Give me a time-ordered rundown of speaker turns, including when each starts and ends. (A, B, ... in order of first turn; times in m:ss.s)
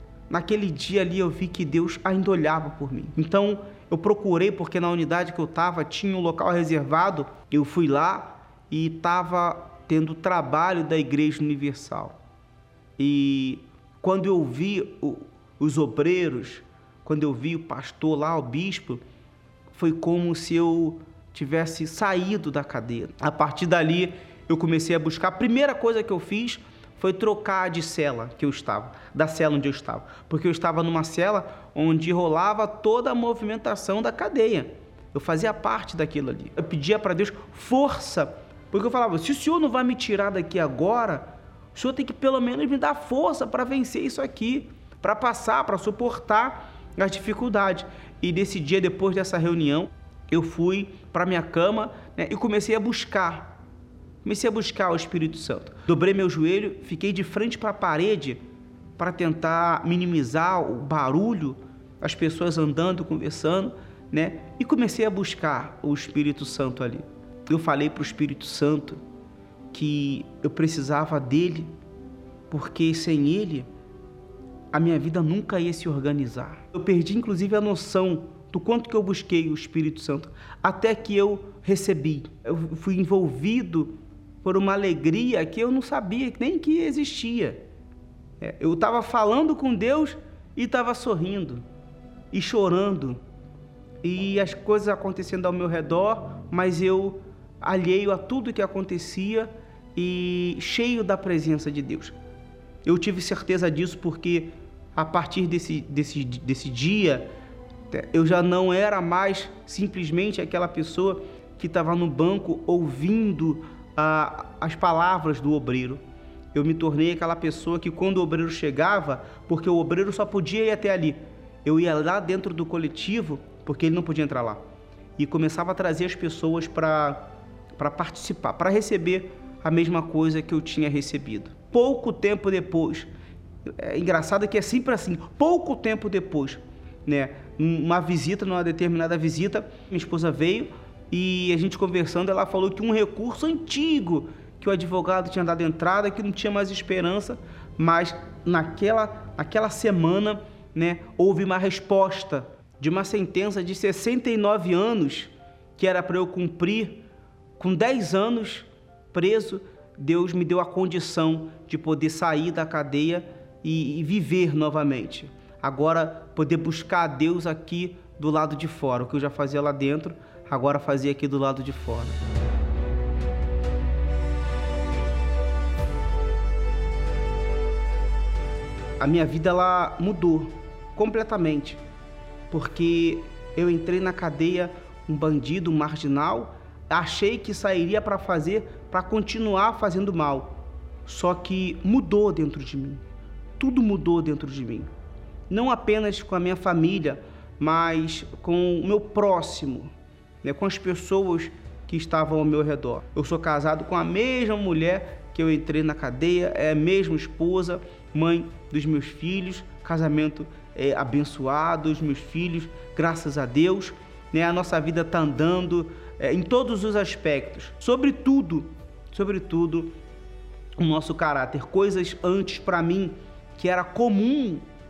0:00.3-0:12.2 A
0:13.0-0:19.0 A
0:19.7-0:53.6 A
0:54.2-0:58.4 A
0:59.0-1:09.0 A
1:09.7-1:11.7 A
1:12.5-1:13.7 A
1:14.7-1:27.6 A
1:28.4-1:31.7 A
1:32.3-1:33.2 A
1:34.0-1:42.2 A
1:42.8-1:47.3 A
1:47.9-1:56.0 A
1:56.5-2:04.6 A
2:05.2-2:13.1 A
2:13.6-2:37.0 A
2:37.6-2:52.2 A
2:59.0-3:01.8 A
3:02.5-3:13.0 A
3:13.6-3:14.9 A
3:15.5-3:40.0 A
3:40.8-3:44.7 A